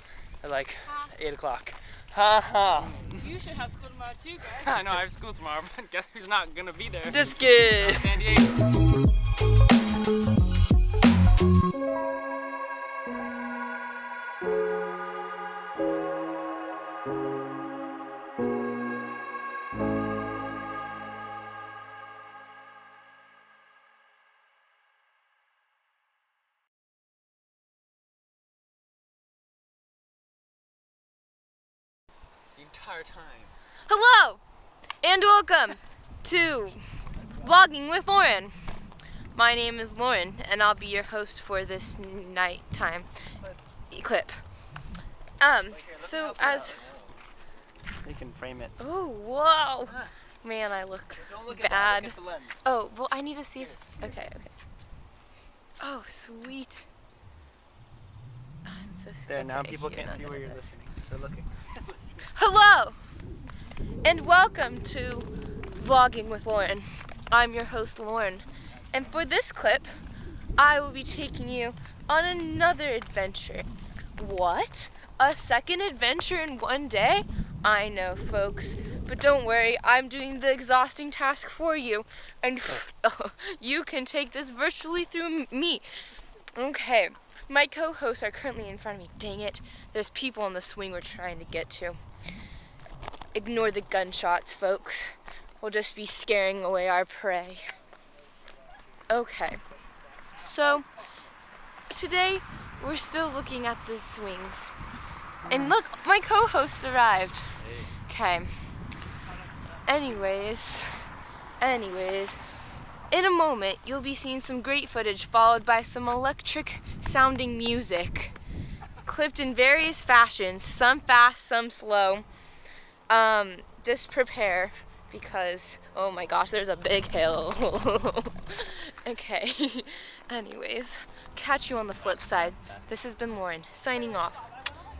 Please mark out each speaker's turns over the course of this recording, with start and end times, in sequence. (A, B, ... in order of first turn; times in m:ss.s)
0:00.4-0:03.2 A
0:03.2-0:04.7 B
0:04.4-0:08.5 C
0:07.1-0:08.2 A
0:32.5-0:33.5 C
0:33.9-0:34.4 B
0:35.0-0:36.8 B
0:37.4-0:38.5 B
0:39.3-0:43.1 B
0:43.9-0:44.3 B
0:45.4-0:46.9 B
0:45.7-0:47.0 A
0:46.4-0:47.0 C
0:48.0-0:48.8 A
0:48.8-0:54.5 B
0:51.2-0:52.6 A
0:55.8-0:56.8 B
0:58.6-1:00.7 B
0:59.3-1:01.7 A
1:02.4-1:03.0 B
1:04.0-1:09.9 B
1:10.6-1:25.8 B
1:26.6-1:32.0 B
1:33.3-1:37.6 B
1:39.1-1:39.6 B
1:40.4-1:40.9 B
1:41.9-1:44.7 B
1:45.5-1:47.5 B
1:47.6-1:47.9 C
1:48.1-1:48.5 B
1:49.8-1:51.0 B
1:51.6-1:52.4 B
1:53.1-1:58.4 B
1:59.0-2:02.2 B
2:03.1-2:14.5 B
2:12.0-2:12.8 C